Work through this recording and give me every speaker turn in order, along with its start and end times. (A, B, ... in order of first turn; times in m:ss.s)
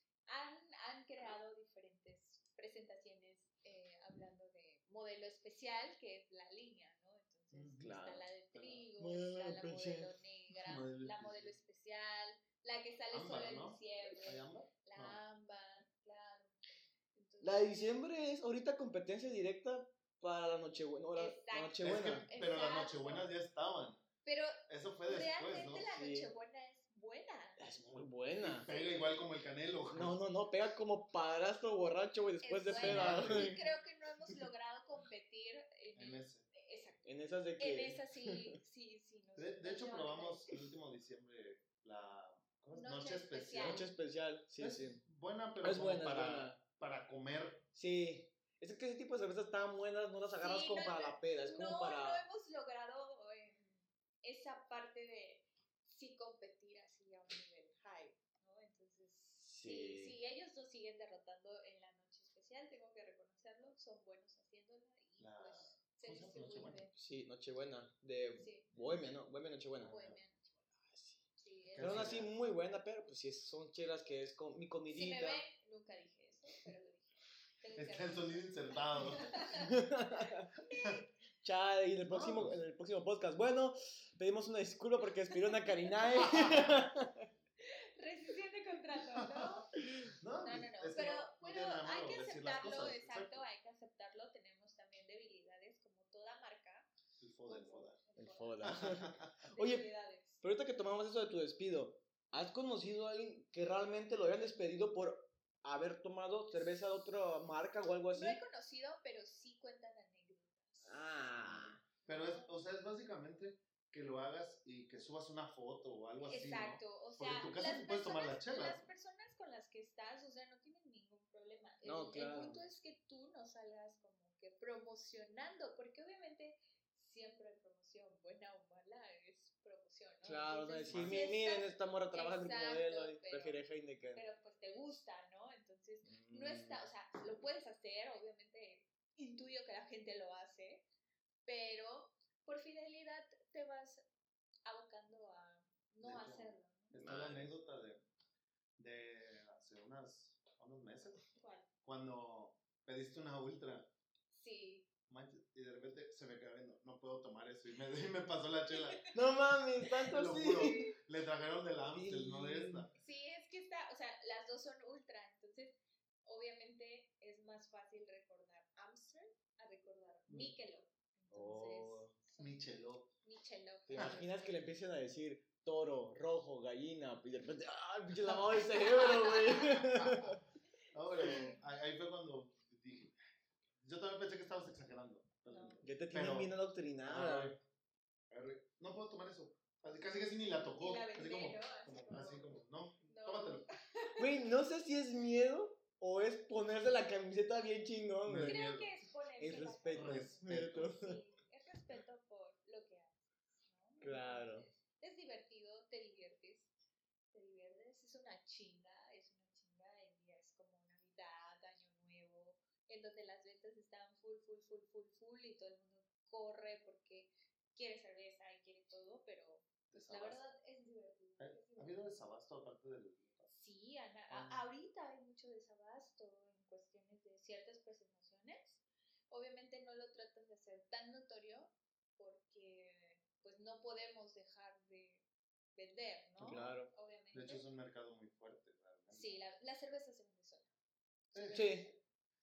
0:00.3-0:16.6 A
0:07.5-0:08.0 B
0:07.8-0:08.3 C
0:08.5-0:08.8 B
0:09.0-0:10.1 C
0:10.6-0:11.6 B
0:13.1-0:15.2 B
0:17.2-0:17.7 A
0:17.4-0:22.3 C
0:21.2-0:23.3 A
0:21.8-0:24.0 B
0:24.2-0:27.7 A
0:24.7-0:25.9 B
0:25.9-0:26.3 C
0:27.6-0:28.7 C
0:28.4-0:30.1 B
0:28.7-0:29.1 A
0:29.9-0:33.7 C
0:32.4-0:40.6 A
0:32.8-0:33.7 B
0:36.0-0:36.5 B
0:37.0-0:38.4 C
0:39.4-0:43.9 B
0:42.7-0:43.9 A
0:43.6-0:45.0 C
0:44.6-0:47.7 B
0:45.6-0:46.6 C
0:47.7-0:52.2 C
0:50.4-1:07.0 A
0:59.4-1:00.2 C
1:05.2-1:06.8 B
1:07.0-1:10.0 C
1:08.4-1:08.7 A
1:09.8-1:10.2 B
1:09.9-1:10.6 A
1:10.8-1:11.2 C
1:11.4-1:12.2 A
1:11.8-1:12.3 B
1:11.8-1:15.4 C
1:14.9-1:19.7 A
1:17.8-1:19.6 B
1:19.5-1:20.5 C
1:20.6-1:21.1 A
1:21.4-1:27.3 C
1:22.1-1:22.6 B
1:25.3-1:26.5 A
1:26.2-1:26.9 B
1:27.6-1:29.7 A
1:29.2-1:29.5 B
1:29.8-1:30.1 C
1:30.2-1:33.5 B
1:30.4-1:36.9 A
1:37.2-1:38.0 B
1:37.5-1:40.4 A
1:38.2-1:39.9 C
1:38.6-1:39.5 B
1:40.4-1:48.4 C
1:48.1-1:51.2 A
1:50.8-1:51.8 C
1:51.4-1:58.9 B
1:52.0-1:52.4 A
1:56.2-2:13.6 A
2:01.8-2:02.6 C
2:10.2-2:14.2 C
2:10.9-2:11.3 B
2:14.2-2:20.9 A
2:16.0-2:16.9 C
2:21.5-2:24.0 A
2:24.6-2:27.0 A
2:26.0-2:28.0 B
2:27.0-2:27.5 C
2:28.8-2:31.2 B
2:31.4-2:31.7 A
2:31.8-2:33.9 B
2:34.3-2:34.9 A
2:35.1-2:39.0 B
2:38.7-2:39.1 A
2:39.1-2:40.9 C
2:39.8-2:40.8 A
2:40.1-2:42.9 B
2:41.9-2:42.9 C
2:43.0-2:52.7 A
2:50.3-2:50.5 B
2:51.3-2:52.2 C
2:52.4-2:53.1 B
2:53.2-2:54.4 A
2:53.9-3:00.4 C
2:58.3-3:00.0 A
3:00.0-3:00.4 B
3:00.9-3:03.2 B
3:01.2-3:01.6 A
3:03.8-3:07.6 B
3:05.5-3:05.8 A
3:05.8-3:07.6 C
3:08.3-3:13.7 B
3:10.8-3:12.5 A
3:13.1-3:14.4 A
3:14.2-3:18.6 C
3:18.2-3:18.9 B
3:18.4-3:26.7 A
3:19.4-3:21.2 C
3:19.5-3:21.1 B
3:24.0-3:24.7 C
3:27.3-3:42.0 A
3:39.9-3:40.4 B
3:41.4-3:43.5 B
3:43.5-3:55.2 A
3:44.3-3:44.6 B
3:55.8-3:57.6 A
3:56.4-3:56.7 B
3:56.4-3:56.9 C
3:57.3-3:59.4 B
3:59.1-4:00.7 A
4:01.3-4:02.0 A
4:01.3-4:01.8 B
4:01.5-4:01.9 C